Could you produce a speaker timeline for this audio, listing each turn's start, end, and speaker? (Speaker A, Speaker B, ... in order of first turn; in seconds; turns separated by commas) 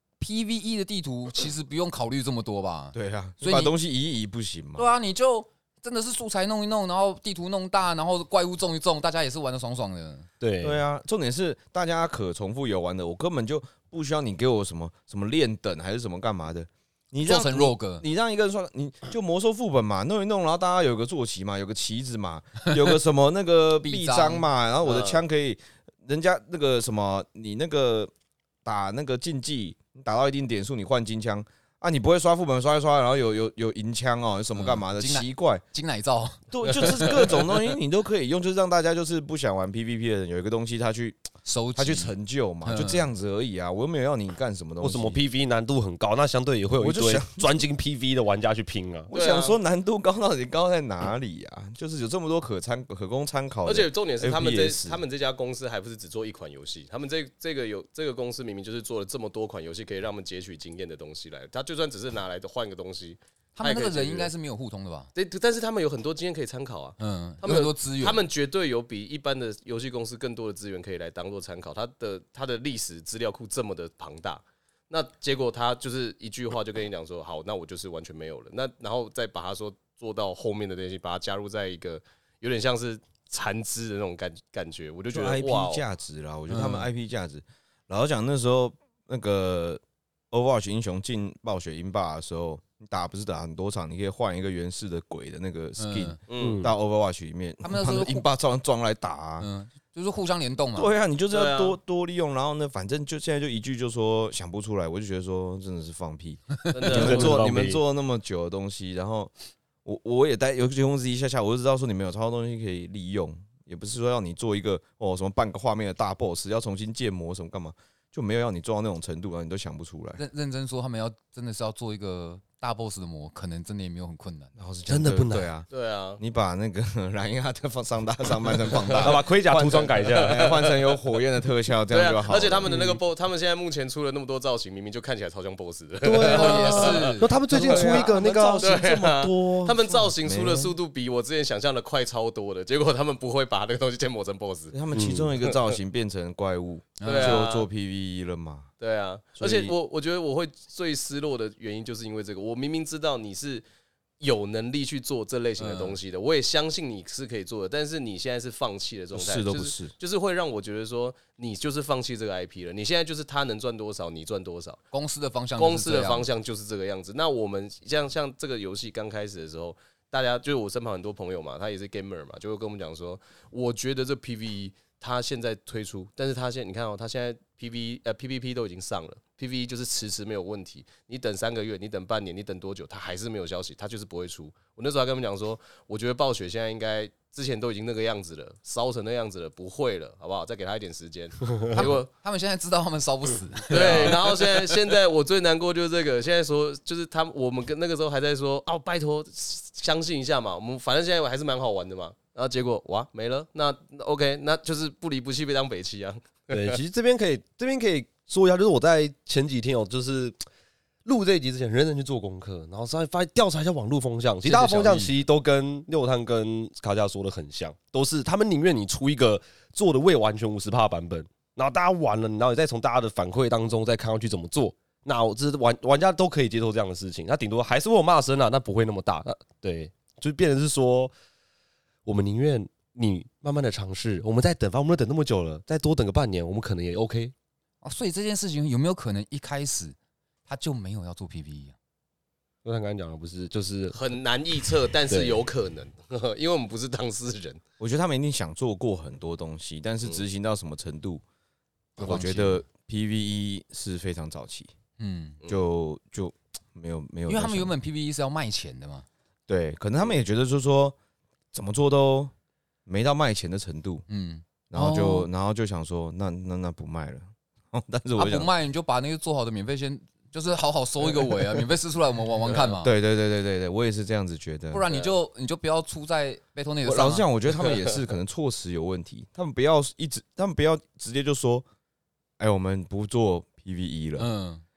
Speaker A: 0.2-3.7, Speaker B: 2.9-4.9, Speaker A: 4.8-10.3, Speaker C: 10.4-10.8, Speaker B: 10.6-28.1, Speaker A: 17.2-18.0, Speaker A: 23.8-24.5, Speaker D: 24.9-25.2, Speaker B: 28.6-35.6, Speaker A: 34.6-37.2, Speaker B: 36.5-45.2, Speaker D: 36.6-37.4, Speaker A: 41.5-42.1, Speaker A: 42.6-43.0, Speaker C: 44.8-49.1, Speaker B: 46.8-47.5, Speaker B: 49.1-55.0, Speaker D: 49.1-49.6, Speaker D: 53.6-64.3, Speaker A: 63.6-65.1, Speaker D: 65.2-85.8, Speaker A: 67.0-68.2, Speaker B: 85.1-99.5, Speaker A: 86.5-86.9, Speaker A: 95.8-96.2, Speaker D: 96.3-96.6, Speaker C: 96.4-96.7, Speaker A: 97.6-98.2, Speaker A: 99.4-100.9, Speaker B: 100.8-109.3, Speaker D: 101.3-101.8, Speaker D: 106.7-107.4, Speaker C: 106.9-107.8, Speaker B: 109.8-120.2, Speaker A: 120.2-124.5, Speaker B: 124.6-125.7, Speaker C: 124.9-125.5, Speaker D: 125.7-126.2, Speaker B: 126.2-132.7, Speaker C: 128.9-130.5, Speaker D: 130.1-130.8, Speaker D: 131.9-144.8, Speaker C: 132.7-133.0, Speaker C: 136.0-139.8, Speaker A: 136.3-137.4, Speaker B: 137.5-140.8, Speaker B: 144.7-148.7, Speaker C: 144.9-145.3, Speaker D: 145.4-145.8, Speaker A: 147.0-147.4, Speaker D: 147.0-147.7, Speaker D: 148.8-153.6, Speaker B: 149.4-149.8, Speaker D: 154.2-164.8, Speaker A: 155.6-156.0, Speaker B: 159.1-159.9, Speaker A: 164.9-166.3, Speaker D: 165.6-192.1, Speaker A: 191.7-194.7, Speaker D: 193.7-206.8, Speaker C: 206.5-210.4, Speaker C: 211.1-231.1, Speaker A: 214.4-215.1, Speaker C: 232.1-237.3, Speaker A: 237.8-240.0, Speaker A: 240.5-241.8, Speaker C: 242.7-244.2, Speaker D: 243.9-247.6, Speaker C: 245.1-245.4, Speaker B: 247.8-251.2, Speaker A: 252.0-252.6, Speaker B: 252.0-254.7, Speaker A: 255.0-255.4, Speaker B: 255.5-257.7, Speaker A: 257.3-259.1, Speaker B: 259.5-261.0, Speaker B: 261.5-262.3, Speaker B: 262.9-264.1, Speaker A: 264.1-265.3, Speaker B: 264.7-268.5, Speaker A: 268.2-272.9, Speaker D: 272.4-272.8, Speaker B: 272.8-274.9, Speaker A: 274.7-277.3, Speaker D: 274.9-275.1, Speaker B: 276.8-281.6, Speaker D: 277.6-277.9, Speaker B: 282.4-284.3, Speaker A: 284.2-284.6